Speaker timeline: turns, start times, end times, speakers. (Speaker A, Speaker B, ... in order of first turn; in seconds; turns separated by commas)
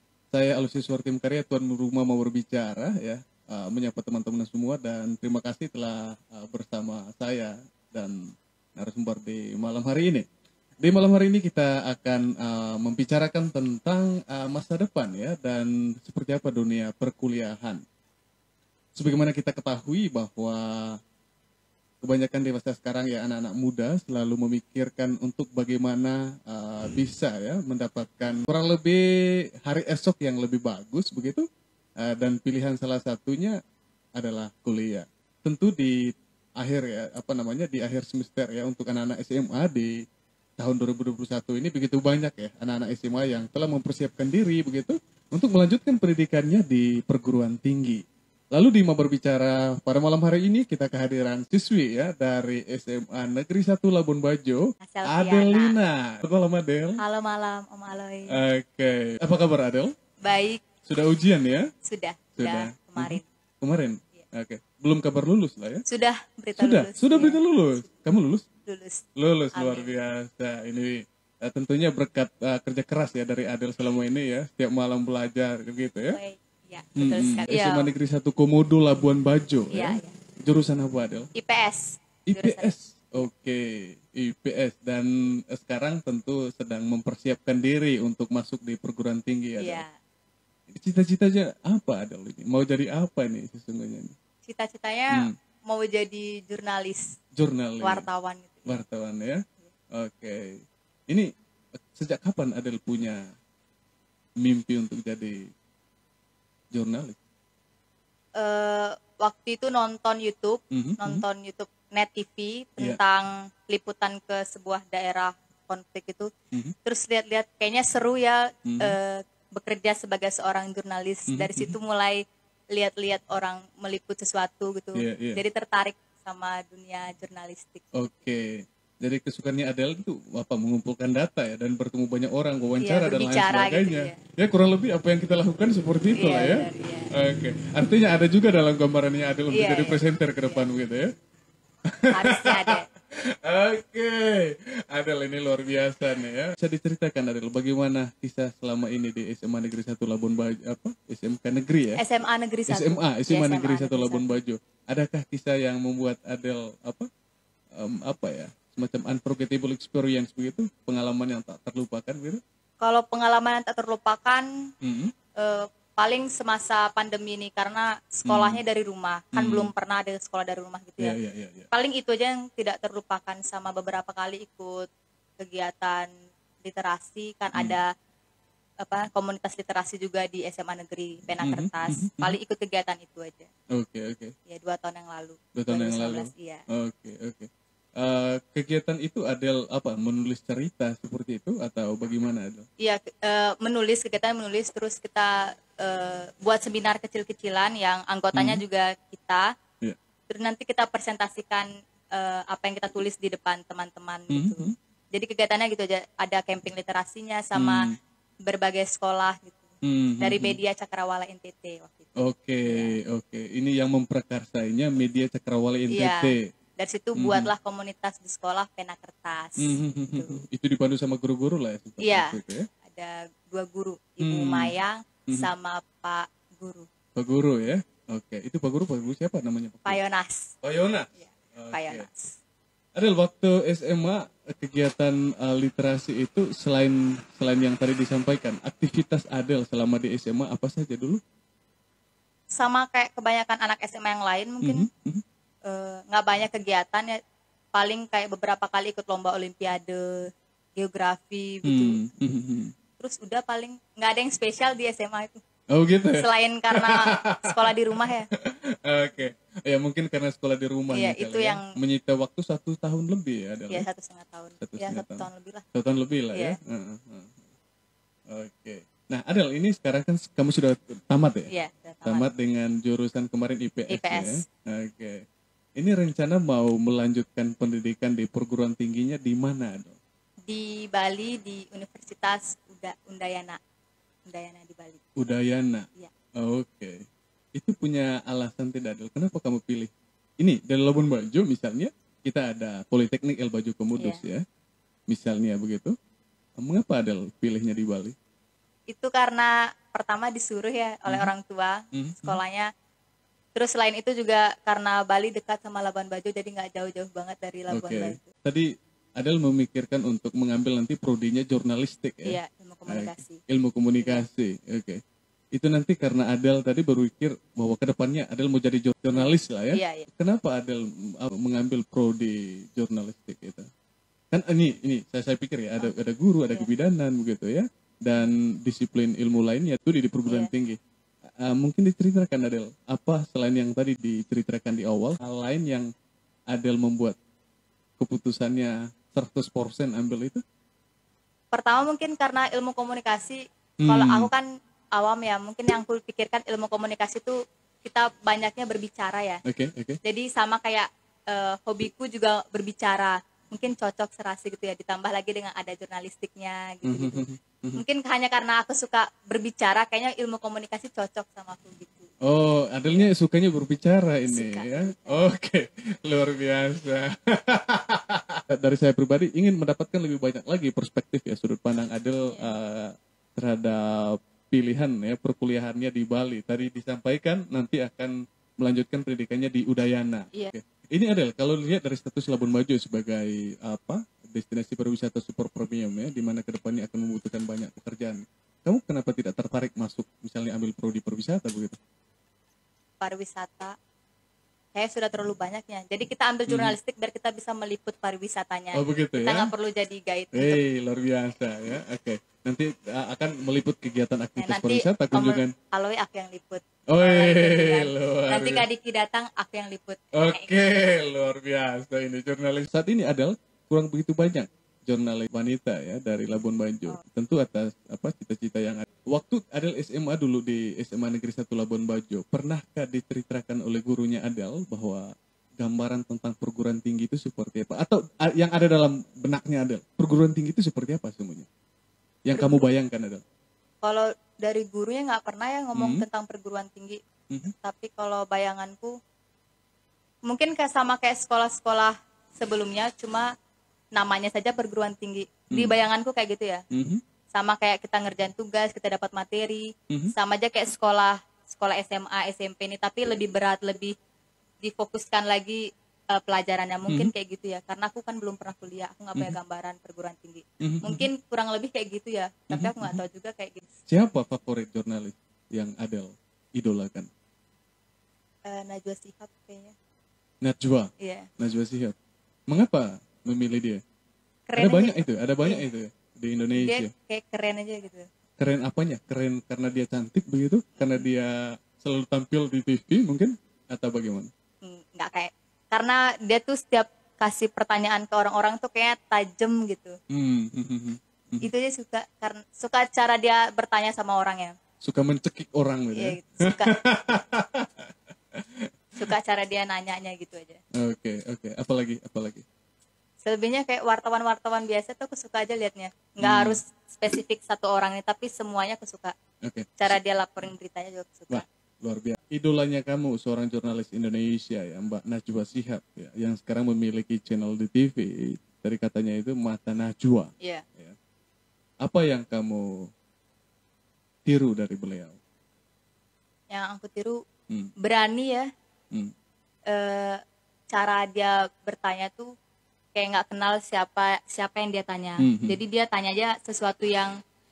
Speaker A: 0.3-10.2, Speaker A: 10.8-17.8, Speaker A: 19.0-21.0, Speaker A: 22.0-29.0, Speaker A: 29.7-31.4, Speaker A: 32.0-33.6, Speaker A: 34.2-36.0, Speaker A: 36.6-39.9, Speaker A: 40.6-48.0, Speaker A: 48.5-57.0, Speaker B: 54.8-55.8, Speaker B: 57.0-58.4, Speaker A: 58.3-59.9, Speaker B: 60.2-60.6, Speaker A: 60.9-61.7, Speaker B: 61.9-63.2, Speaker A: 62.4-65.8, Speaker B: 65.9-67.4, Speaker A: 66.6-68.5, Speaker B: 68.7-69.0, Speaker A: 69.2-76.2, Speaker B: 69.5-69.9, Speaker B: 76.1-77.9, Speaker A: 77.0-81.3, Speaker B: 79.7-80.2, Speaker B: 81.3-82.8, Speaker A: 82.3-89.8, Speaker B: 89.6-89.9, Speaker A: 90.7-94.1, Speaker B: 94.5-97.2, Speaker A: 97.4-98.1, Speaker B: 97.8-98.8, Speaker A: 98.7-99.4, Speaker A: 100.0-101.3, Speaker A: 101.9-103.2, Speaker A: 104.4-105.4, Speaker A: 106.7-107.2, Speaker B: 108.4-116.3, Speaker A: 110.7-111.2, Speaker B: 116.8-122.2, Speaker A: 118.7-119.0, Speaker A: 121.3-121.7, Speaker B: 122.7-127.8, Speaker A: 125.0-125.4, Speaker A: 128.0-141.1, Speaker B: 132.8-134.2, Speaker B: 136.1-137.1, Speaker B: 139.5-140.7, Speaker A: 141.9-152.0, Speaker B: 142.1-142.9, Speaker B: 152.0-154.3, Speaker A: 152.7-157.1, Speaker A: 157.8-162.4, Speaker B: 162.8-164.4, Speaker A: 164.8-165.1, Speaker B: 165.4-171.2, Speaker A: 168.3-168.6, Speaker A: 169.3-169.7, Speaker A: 171.0-171.7, Speaker B: 171.7-174.9, Speaker B: 175.4-176.1, Speaker B: 176.6-177.9, Speaker B: 178.8-183.5, Speaker A: 181.4-182.4, Speaker A: 183.8-184.3, Speaker B: 184.5-186.7, Speaker A: 185.6-192.7, Speaker B: 192.8-199.4, Speaker A: 198.3-198.6, Speaker B: 200.3-207.9, Speaker A: 204.3-204.7, Speaker A: 207.6-208.0, Speaker B: 208.5-209.6, Speaker A: 209.8-210.6, Speaker B: 210.2-213.0, Speaker A: 212.2-216.4, Speaker B: 215.9-220.4, Speaker A: 217.2-217.5, Speaker A: 219.6-222.7, Speaker B: 222.0-226.9, Speaker A: 224.2-224.7, Speaker A: 227.2-230.0, Speaker B: 229.9-230.5, Speaker A: 230.6-232.1, Speaker B: 231.2-232.3, Speaker A: 233.0-241.2, Speaker B: 242.6-244.9, Speaker A: 244.6-245.2, Speaker B: 245.7-247.2, Speaker B: 247.7-252.0, Speaker A: 251.6-252.7, Speaker B: 253.0-255.4, Speaker A: 255.7-263.9, Speaker B: 256.1-258.3, Speaker B: 260.9-261.7, Speaker B: 263.7-265.6, Speaker A: 264.6-267.4, Speaker A: 268.3-271.5, Speaker B: 271.5-272.3, Speaker A: 272.1-275.2, Speaker B: 273.9-274.4, Speaker A: 275.8-280.0, Speaker B: 280.5-283.6, Speaker B: 284.3-285.2, Speaker A: 285.2-285.9, Speaker A: 286.4-287.0, Speaker A: 287.6-294.4, Speaker A: 295.1-295.9, Speaker A: 296.6-298.1, Speaker B: 298.9-302.7, Speaker A: 301.9-302.4, Speaker B: 303.6-308.3, Speaker A: 307.7-308.7, Speaker A: 309.2-312.4, Speaker B: 312.3-313.4, Speaker A: 312.9-315.0, Speaker A: 315.6-323.7, Speaker B: 319.1-320.1, Speaker A: 324.3-330.8, Speaker A: 331.4-335.9, Speaker A: 336.5-337.2, Speaker A: 338.0-340.4, Speaker B: 341.5-349.4, Speaker A: 343.8-344.3, Speaker A: 349.4-350.0, Speaker B: 350.0-362.1, Speaker A: 356.8-357.8, Speaker A: 362.2-391.8, Speaker B: 362.9-363.1, Speaker B: 364.3-365.2, Speaker B: 372.2-372.5, Speaker B: 393.0-393.7, Speaker B: 394.8-400.6, Speaker A: 396.5-396.8, Speaker A: 398.7-399.5, Speaker A: 400.3-405.5, Speaker B: 404.4-410.6, Speaker A: 406.9-408.7, Speaker A: 410.1-425.1, Speaker A: 425.6-431.5, Speaker A: 432.3-433.2, Speaker B: 432.3-432.7, Speaker B: 433.8-437.0, Speaker A: 435.8-436.1, Speaker B: 437.5-438.9, Speaker B: 440.3-443.3, Speaker B: 444.0-446.6, Speaker A: 445.5-445.8, Speaker A: 446.7-447.0, Speaker B: 447.3-453.9, Speaker B: 454.6-463.7, Speaker A: 460.6-461.1, Speaker A: 462.5-463.0, Speaker A: 463.9-467.1, Speaker B: 468.5-469.7, Speaker A: 470.4-471.9, Speaker B: 471.0-471.3, Speaker A: 472.5-473.8, Speaker B: 474.5-475.6, Speaker A: 474.6-476.9, Speaker B: 476.6-478.1, Speaker A: 478.4-484.3, Speaker B: 480.8-481.1, Speaker B: 484.6-490.0, Speaker A: 490.1-491.5, Speaker B: 491.4-494.6, Speaker A: 494.8-499.1, Speaker B: 496.0-496.8, Speaker B: 499.0-500.6, Speaker A: 500.8-502.4, Speaker B: 503.2-509.1, Speaker A: 506.2-506.6, Speaker A: 509.4-509.9, Speaker B: 509.8-511.5, Speaker A: 511.3-521.0, Speaker A: 521.8-522.9, Speaker A: 524.3-525.2, Speaker B: 526.5-527.2, Speaker B: 527.8-528.5, Speaker B: 529.7-532.3, Speaker B: 533.0-537.1, Speaker A: 535.2-535.6